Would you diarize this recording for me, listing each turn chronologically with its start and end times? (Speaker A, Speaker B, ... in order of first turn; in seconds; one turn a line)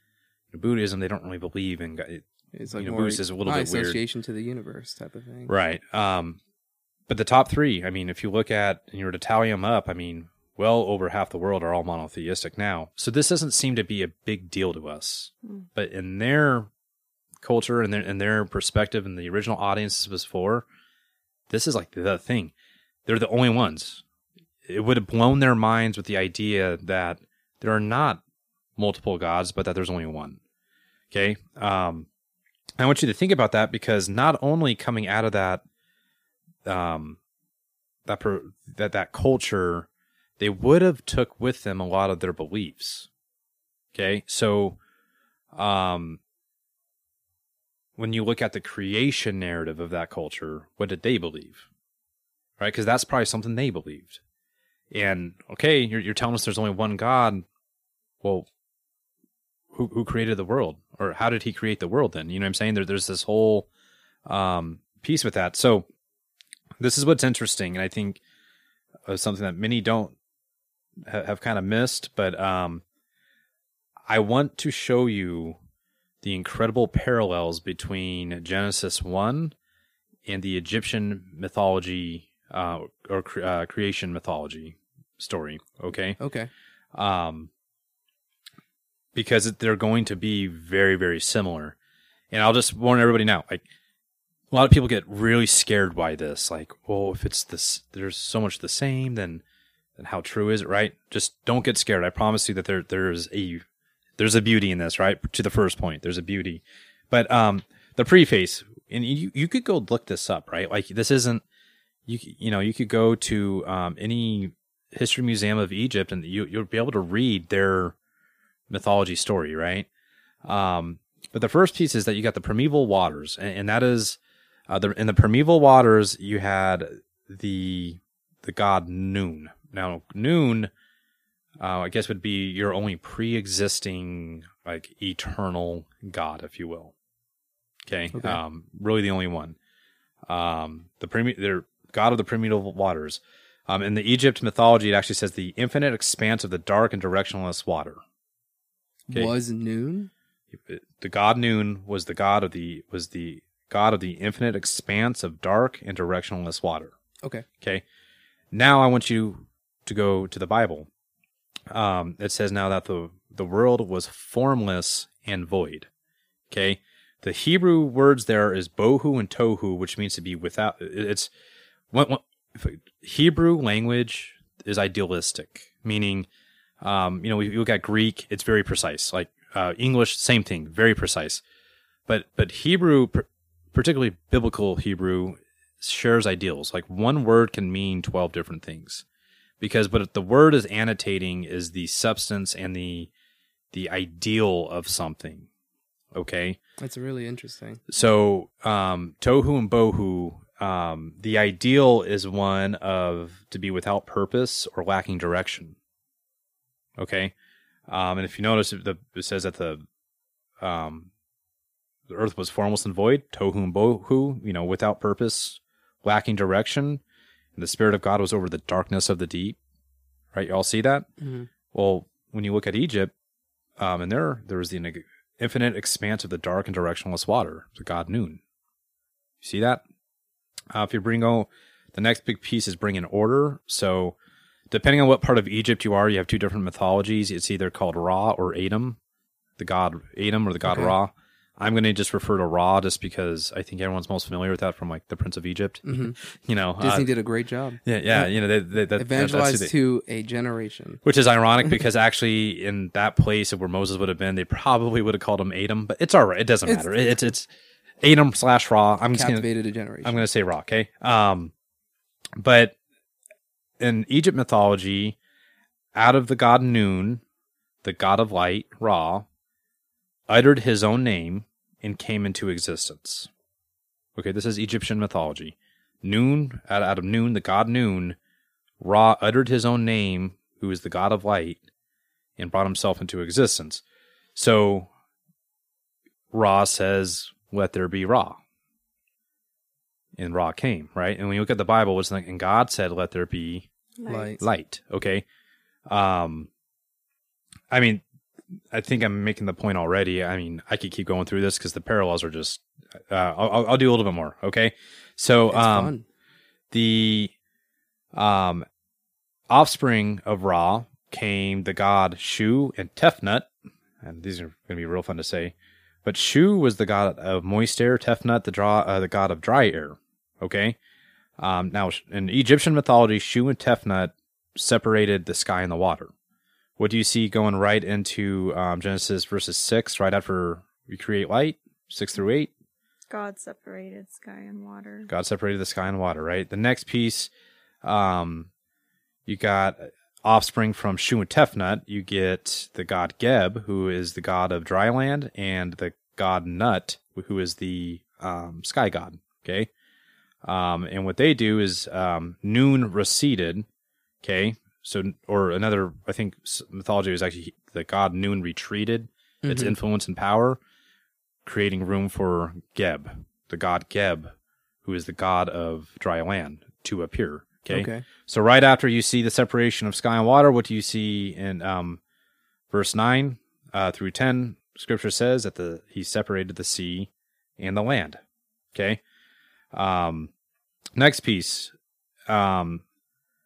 Speaker A: 0.5-4.0
Speaker B: 2.5-5.5
Speaker A: 5.5-6.4
Speaker A: 7.1-16.7
Speaker A: 17.4-20.6
Speaker A: 21.5-22.5
Speaker A: 23.1-24.0
Speaker A: 24.6-28.2
Speaker A: 28.8-30.4
Speaker A: 31.1-32.1
Speaker A: 32.8-35.6
Speaker A: 36.6-37.2
Speaker A: 38.0-39.9
Speaker A: 40.4-43.1
Speaker A: 43.9-44.8
Speaker A: 45.5-46.2
Speaker A: 48.0-51.7
Speaker A: 52.6-54.2
Speaker A: 54.9-57.5
Speaker A: 58.2-58.5
Speaker A: 59.7-63.7
Speaker A: 64.2-65.8
Speaker A: 66.8-68.2
Speaker A: 69.0-70.1
Speaker A: 71.0-72.8
Speaker A: 74.1-75.6
Speaker A: 76.2-79.5
Speaker A: 80.2-86.2
Speaker B: 86.2-86.5
Speaker A: 86.9-87.5
Speaker A: 89.1-91.8
Speaker A: 92.3-93.6
Speaker A: 94.5-99.4
Speaker A: 100.0-103.7
Speaker A: 104.2-111.4
Speaker A: 112.0-118.0
Speaker A: 118.7-119.9
Speaker A: 120.4-124.2
Speaker A: 124.7-130.7
Speaker A: 131.6-136.9
Speaker A: 137.8-139.6
Speaker B: 138.1-138.4
Speaker A: 140.3-148.0
Speaker B: 149.1-150.1
Speaker A: 150.6-156.9
Speaker A: 158.5-160.9
Speaker A: 161.7-165.9
Speaker A: 166.5-171.3
Speaker A: 171.9-176.3
Speaker A: 176.8-181.4
Speaker A: 182.1-189.0
Speaker A: 189.6-193.1
Speaker A: 193.7-195.5
Speaker A: 196.1-196.6
Speaker B: 196.8-197.8
Speaker A: 197.9-205.8
Speaker A: 207.0-207.3
Speaker A: 207.9-209.8
Speaker A: 210.6-211.1
Speaker A: 212.1-217.0
Speaker A: 217.6-219.6
Speaker A: 220.3-221.1
Speaker B: 221.2-221.5
Speaker A: 221.7-223.1
Speaker A: 223.8-228.4
Speaker A: 229.4-229.8
Speaker A: 230.7-234.2
Speaker A: 234.7-239.0
Speaker A: 239.6-247.1
Speaker B: 240.6-240.9
Speaker B: 245.8-246.2
Speaker B: 246.8-248.3
Speaker A: 247.8-249.7
Speaker B: 248.9-251.0
Speaker A: 251.0-257.5
Speaker B: 256.6-257.3
Speaker A: 258.0-259.5
Speaker B: 259.1-260.2
Speaker A: 260.0-261.5
Speaker A: 262.4-262.8
Speaker A: 263.8-265.2
Speaker A: 265.9-267.2
Speaker A: 267.8-269.2
Speaker A: 270.3-273.3
Speaker A: 274.1-278.2
Speaker A: 278.8-281.6
Speaker A: 282.4-283.8
Speaker A: 284.4-284.9
Speaker A: 286.3-288.4
Speaker A: 290.2-293.7
Speaker C: 294.0-294.4
Speaker B: 294.1-294.4
Speaker A: 294.4-295.2
Speaker A: 295.9-296.5
Speaker A: 297.7-298.0
Speaker A: 298.7-305.9
Speaker B: 305.5-306.1
Speaker A: 306.7-307.3
Speaker A: 308.1-308.6
Speaker A: 309.5-313.5
Speaker A: 314.0-320.8
Speaker A: 321.4-326.1
Speaker A: 326.8-332.5
Speaker C: 333.1-335.1
Speaker A: 335.1-337.3
Speaker A: 337.8-338.5
Speaker A: 339.2-349.7
Speaker A: 350.4-353.7
Speaker A: 354.2-360.6
Speaker B: 359.4-359.8
Speaker A: 361.4-372.0
Speaker B: 367.7-368.0
Speaker A: 372.7-378.2
Speaker A: 378.7-379.0
Speaker A: 379.7-380.3
Speaker A: 380.9-381.7
Speaker A: 382.3-382.8